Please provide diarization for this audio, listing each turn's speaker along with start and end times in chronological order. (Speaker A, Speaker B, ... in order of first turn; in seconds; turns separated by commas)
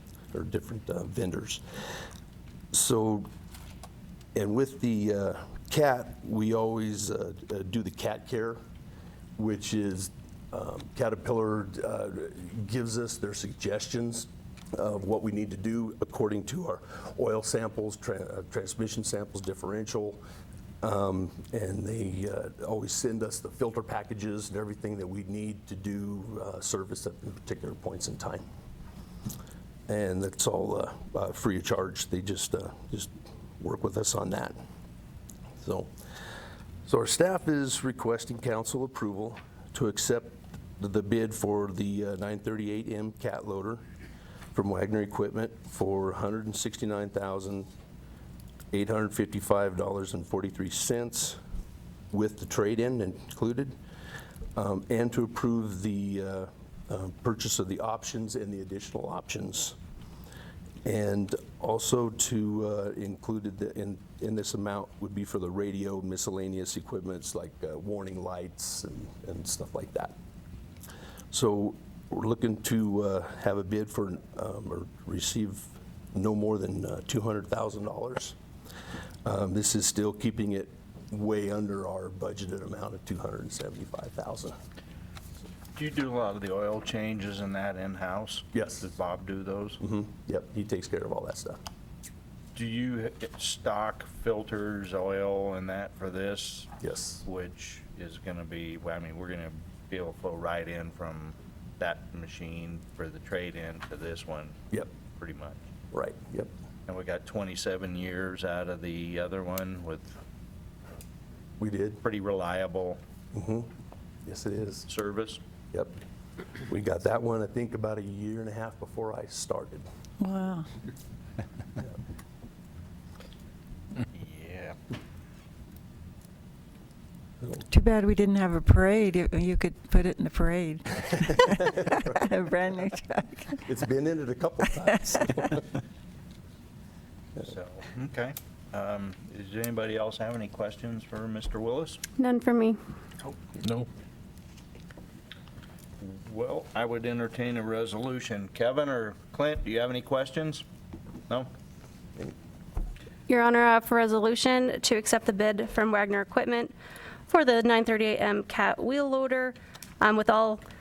Speaker A: 0.3-1.6, Speaker A: 2.7-3.3, Speaker A: 4.3-8.6, Speaker A: 9.4-20.2, Speaker A: 20.8-28.4, Speaker A: 29.9-34.5, Speaker A: 35.6-35.9, Speaker A: 36.9-43.8, Speaker A: 44.5-47.7, Speaker A: 48.7-51.4, Speaker A: 52.1-53.7, Speaker A: 54.5-59.8, Speaker A: 60.8-70.2, Speaker A: 71.3-78.4, Speaker A: 79.2-84.5, Speaker B: 85.8-89.8, Speaker A: 88.5-88.9, Speaker A: 89.8-91.6, Speaker B: 92.5-96.7, Speaker A: 96.8-97.2, Speaker B: 97.2-104.6, Speaker B: 105.1-105.6, Speaker A: 105.9-106.5, Speaker B: 106.9-110.2, Speaker A: 111.6-112.0, Speaker B: 112.0-113.0, Speaker A: 113.3-113.7, Speaker A: 114.2-114.9, Speaker B: 114.9-115.4, Speaker A: 116.7-119.8, Speaker C: 120.2-120.7, Speaker B: 124.1-124.8, Speaker C: 127.7-133.7, Speaker A: 133.7-135.7, Speaker B: 137.4-142.0, Speaker D: 142.2-142.8, Speaker B: 146.0-150.6, Speaker D: 153.3-156.7, Speaker D: 157.3-160.6